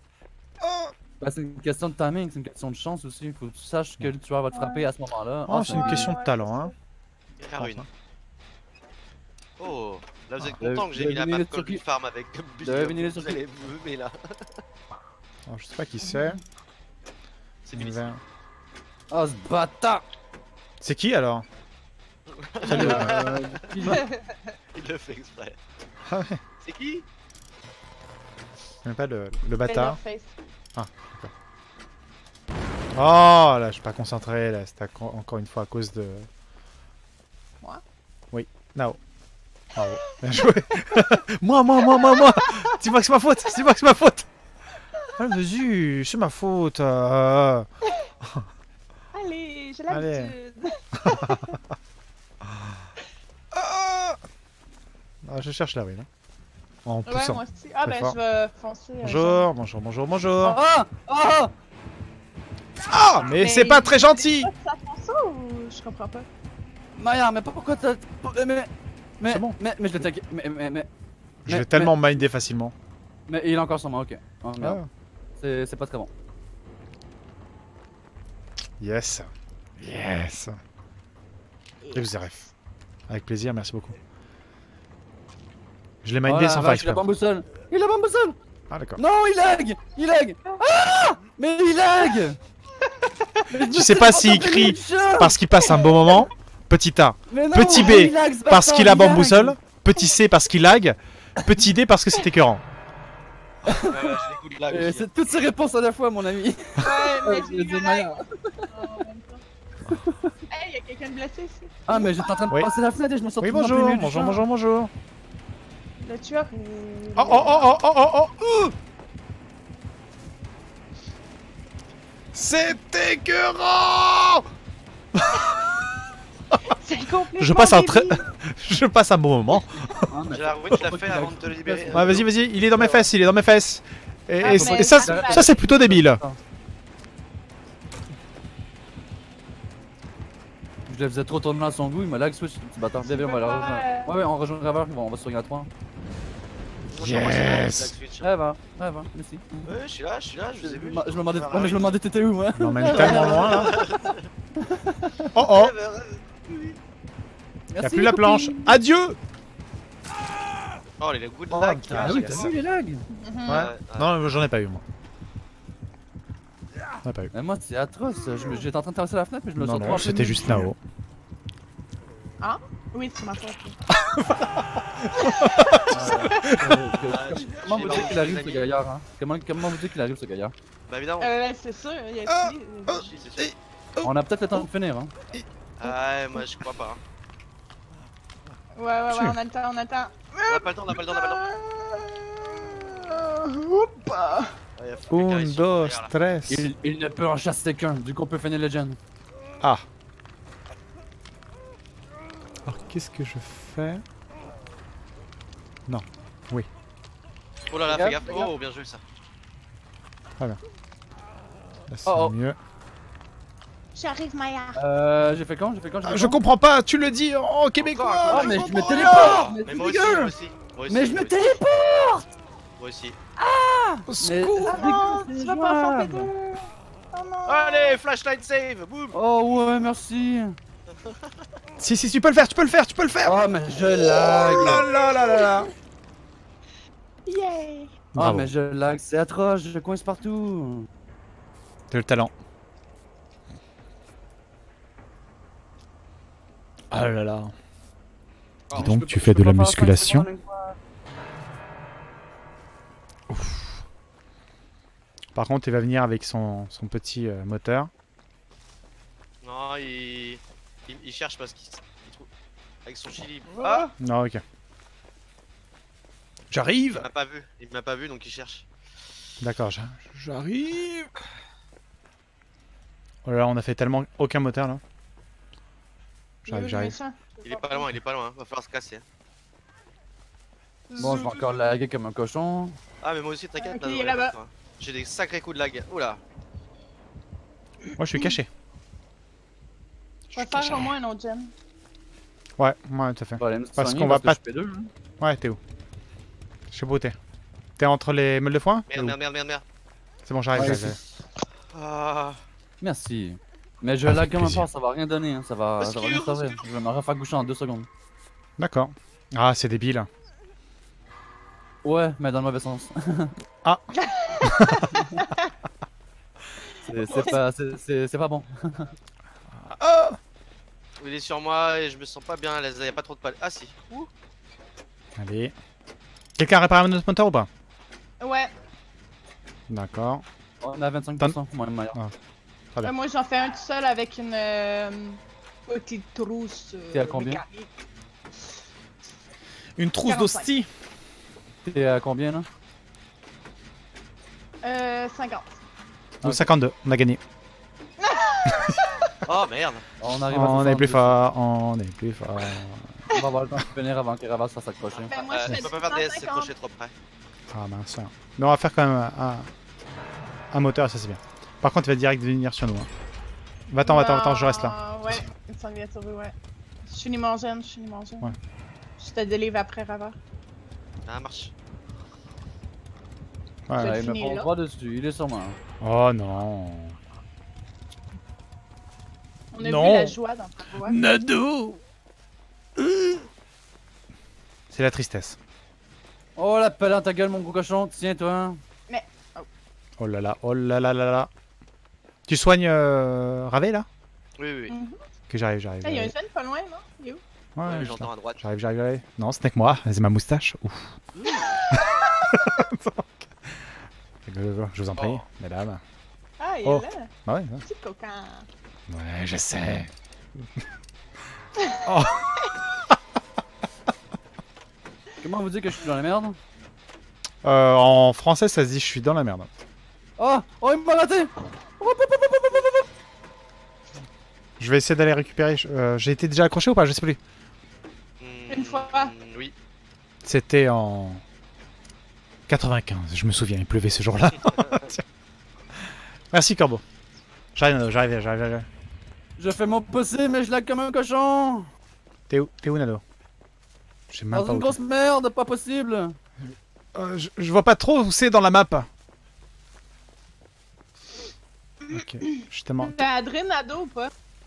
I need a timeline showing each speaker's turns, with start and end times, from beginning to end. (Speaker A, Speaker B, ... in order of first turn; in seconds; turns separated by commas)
Speaker A: 0.6-0.9, Speaker B: 1.2-6.1, Speaker C: 4.5-4.9, Speaker A: 5.5-6.7, Speaker C: 5.7-6.7, Speaker D: 7.4-7.9, Speaker A: 7.6-7.9, Speaker D: 9.6-14.2, Speaker B: 10.6-11.8, Speaker B: 12.6-13.4, Speaker A: 15.5-16.4, Speaker C: 16.0-16.4, Speaker D: 17.6-18.1, Speaker A: 17.7-18.2, Speaker B: 19.1-20.0, Speaker A: 20.8-21.4, Speaker D: 22.4-23.6, Speaker A: 22.6-23.5, Speaker B: 22.7-24.1, Speaker C: 23.9-24.1, Speaker D: 24.7-25.6, Speaker A: 26.1-26.4, Speaker D: 26.6-27.1, Speaker A: 28.8-30.0, Speaker C: 29.6-30.4, Speaker A: 30.8-31.3, Speaker A: 33.0-36.3, Speaker A: 38.3-39.0, Speaker A: 39.7-44.3, Speaker C: 41.8-42.6, Speaker A: 45.2-47.6, Speaker C: 49.1-51.6, Speaker A: 49.9-50.3, Speaker A: 51.0-51.3, Speaker A: 53.5-54.2, Speaker A: 55.2-56.1, Speaker A: 56.8-58.2, Speaker C: 57.0-59.5, Speaker A: 59.0-60.6, Speaker B: 60.4-61.5, Speaker A: 62.9-64.5, Speaker C: 63.3-66.3, Speaker B: 66.9-70.9, Speaker A: 69.2-69.5, Speaker A: 71.5-72.7, Speaker B: 71.5-71.9, Speaker B: 73.3-74.8, Speaker A: 74.6-74.9, Speaker B: 75.4-76.1, Speaker A: 78.8-80.6, Speaker A: 81.9-82.5, Speaker A: 83.1-84.0, Speaker A: 86.0-87.0, Speaker B: 86.3-88.4, Speaker A: 88.7-89.0, Speaker B: 89.0-92.4, Speaker B: 93.5-95.4, Speaker A: 93.7-102.6, Speaker B: 97.3-99.6, Speaker B: 103.7-104.2, Speaker D: 103.9-105.1, Speaker B: 104.7-108.6, Speaker C: 106.8-109.4, Speaker B: 109.9-110.4, Speaker C: 110.5-112.5, Speaker B: 111.9-114.4, Speaker A: 113.4-114.9, Speaker C: 116.0-117.8, Speaker A: 117.2-118.7, Speaker A: 122.3-124.4, Speaker A: 125.2-125.8, Speaker C: 126.8-128.2, Speaker A: 127.4-130.1, Speaker B: 129.8-132.2, Speaker D: 130.3-132.2, Speaker A: 131.9-136.2, Speaker C: 134.4-135.7, Speaker B: 134.4-136.4, Speaker B: 140.9-145.7, Speaker C: 143.0-144.1, Speaker D: 146.9-148.3, Speaker A: 146.9-147.9, Speaker B: 148.2-149.7, Speaker D: 149.7-151.9, Speaker B: 150.6-154.0, Speaker A: 152.6-153.8, Speaker D: 152.8-154.2, Speaker B: 154.6-155.3, Speaker A: 155.3-155.7, Speaker D: 155.4-156.8, Speaker B: 157.7-158.8, Speaker A: 157.8-159.2, Speaker D: 161.0-162.5, Speaker A: 161.5-162.6, Speaker B: 161.8-163.1, Speaker C: 163.2-163.7, Speaker A: 163.5-164.8, Speaker D: 163.5-164.1, Speaker A: 167.0-167.3, Speaker B: 167.3-170.7, Speaker A: 169.6-170.8, Speaker C: 172.4-173.8, Speaker A: 174.0-176.7, Speaker C: 175.2-175.6, Speaker B: 175.9-180.5, Speaker D: 177.1-178.7, Speaker D: 180.9-181.3, Speaker C: 181.2-183.1, Speaker A: 182.3-184.7, Speaker D: 183.0-183.5, Speaker B: 184.0-185.1, Speaker A: 185.3-185.9, Speaker D: 185.8-187.0, Speaker C: 188.8-194.5, Speaker A: 189.1-189.4, Speaker D: 190.5-191.5, Speaker D: 194.8-196.1, Speaker A: 195.1-196.7, Speaker B: 196.5-199.0, Speaker A: 202.7-204.0, Speaker A: 205.9-206.7, Speaker D: 207.7-209.0, Speaker B: 207.9-208.5, Speaker A: 211.9-212.6, Speaker B: 212.1-212.4, Speaker C: 213.9-214.8, Speaker B: 214.8-216.4, Speaker A: 216.0-219.4, Speaker D: 217.7-221.4, Speaker B: 218.3-220.3, Speaker C: 218.8-219.4, Speaker B: 220.9-222.3, Speaker D: 222.8-223.2, Speaker B: 223.4-226.3, Speaker A: 224.1-225.1, Speaker C: 224.6-228.0, Speaker D: 227.5-229.1, Speaker B: 229.1-230.6, Speaker A: 231.8-235.7, Speaker B: 233.2-234.9, Speaker C: 235.1-235.6, Speaker C: 237.2-237.9, Speaker A: 238.2-238.5, Speaker B: 238.2-240.9, Speaker A: 241.9-242.3, Speaker A: 246.9-247.5, Speaker B: 248.7-250.8, Speaker A: 248.7-250.3, Speaker A: 253.3-253.8, Speaker A: 255.3-257.9, Speaker D: 259.4-262.3, Speaker D: 262.9-263.9, Speaker A: 264.0-264.4, Speaker A: 266.5-267.1, Speaker D: 266.9-268.7, Speaker A: 269.4-271.1, Speaker A: 273.2-274.8, Speaker C: 276.4-277.9, Speaker A: 276.5-276.9, Speaker D: 277.4-279.0, Speaker C: 280.9-281.6, Speaker B: 281.0-282.8, Speaker D: 283.0-286.2, Speaker C: 283.6-284.4, Speaker A: 288.0-288.5, Speaker A: 290.3-290.9, Speaker C: 290.4-291.5, Speaker A: 292.6-294.4, Speaker B: 293.4-294.9, Speaker A: 295.2-295.6, Speaker A: 296.7-297.2, Speaker A: 297.8-299.2, Speaker D: 298.9-299.6, Speaker A: 300.2-301.0, Speaker B: 300.5-300.9, Speaker D: 301.7-302.4, Speaker B: 302.8-307.9, Speaker A: 304.1-304.7, Speaker D: 305.8-306.6, Speaker A: 308.6-310.1, Speaker B: 311.8-313.3, Speaker C: 314.0-315.4, Speaker A: 314.4-314.9, Speaker B: 316.8-318.9, Speaker C: 317.1-317.4, Speaker A: 319.6-320.2, Speaker D: 321.0-324.1, Speaker A: 325.2-325.5, Speaker A: 326.4-327.5, Speaker C: 328.2-328.5, Speaker A: 329.7-330.2, Speaker B: 330.6-332.0, Speaker C: 332.8-337.7, Speaker B: 336.9-337.4, Speaker A: 339.8-340.7, Speaker C: 340.0-340.5, Speaker B: 341.6-342.5, Speaker C: 344.6-345.6, Speaker A: 346.2-347.2, Speaker B: 346.2-346.5, Speaker C: 348.0-348.9, Speaker D: 349.2-349.8, Speaker B: 350.0-351.2, Speaker A: 350.3-352.9, Speaker B: 353.1-355.1, Speaker D: 354.9-356.9, Speaker C: 355.1-356.5, Speaker A: 357.5-359.5, Speaker A: 360.5-362.9, Speaker A: 363.7-365.2, Speaker C: 363.8-368.4, Speaker C: 369.0-370.2, Speaker D: 371.1-371.5, Speaker A: 373.7-374.0, Speaker C: 373.7-374.5, Speaker B: 373.8-375.6, Speaker A: 375.8-376.9, Speaker C: 379.5-381.0, Speaker A: 379.6-380.2, Speaker A: 380.8-381.8, Speaker A: 382.8-383.2, Speaker A: 384.7-385.4, Speaker B: 386.4-388.6, Speaker C: 388.9-389.4, Speaker A: 390.0-391.3, Speaker A: 392.3-393.9, Speaker D: 394.4-394.8, Speaker C: 394.7-395.0, Speaker A: 395.3-396.1, Speaker C: 395.8-397.2, Speaker A: 397.6-401.0, Speaker D: 397.6-398.4, Speaker D: 401.1-401.6, Speaker A: 401.7-403.3, Speaker A: 404.2-405.8, Speaker D: 404.9-405.2, Speaker C: 406.4-407.1, Speaker A: 406.6-407.6, Speaker C: 407.6-408.5, Speaker A: 408.9-409.9, Speaker A: 411.9-412.2, Speaker B: 415.2-416.4, Speaker A: 417.4-419.5, Speaker B: 420.2-422.9, Speaker A: 424.6-427.2, Speaker D: 428.2-429.5, Speaker C: 428.5-429.1, Speaker A: 430.2-431.2, Speaker A: 432.5-435.0, Speaker A: 436.3-436.8, Speaker A: 437.6-438.7, Speaker B: 439.4-441.7, Speaker A: 442.3-443.0, Speaker A: 444.1-444.8, Speaker B: 444.3-446.2, Speaker A: 446.9-448.9, Speaker A: 451.9-453.1, Speaker C: 452.8-454.1